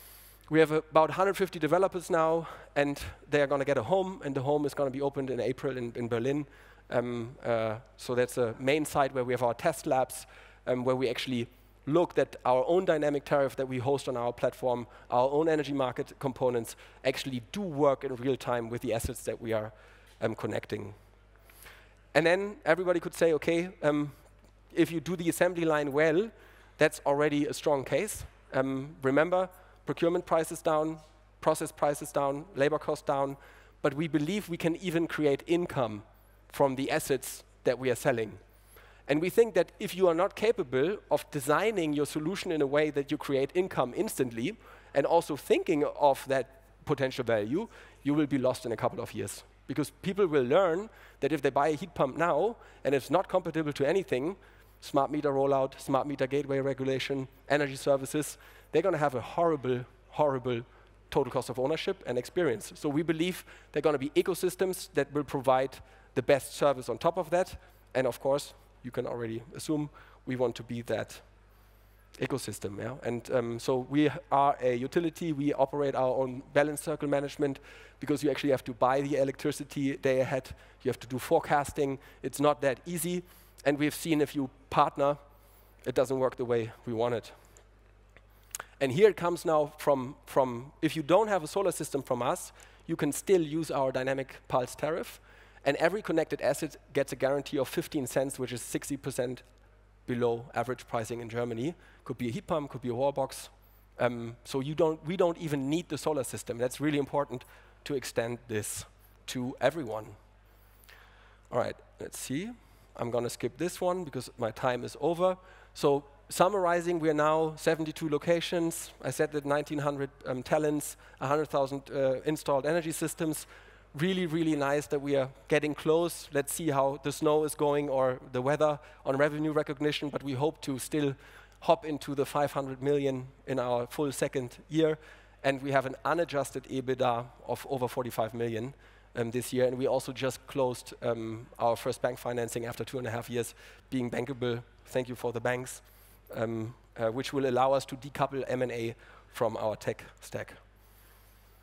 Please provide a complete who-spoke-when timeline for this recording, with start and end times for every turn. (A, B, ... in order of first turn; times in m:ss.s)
0:00.5-0:21.0 A
0:22.1-0:38.4 A
0:39.1-1:11.2 A
1:12.2-1:25.2 A
1:25.8-1:27.4 A
1:28.8-1:39.4 A
1:40.1-1:50.2 A
1:51.5-2:30.6 A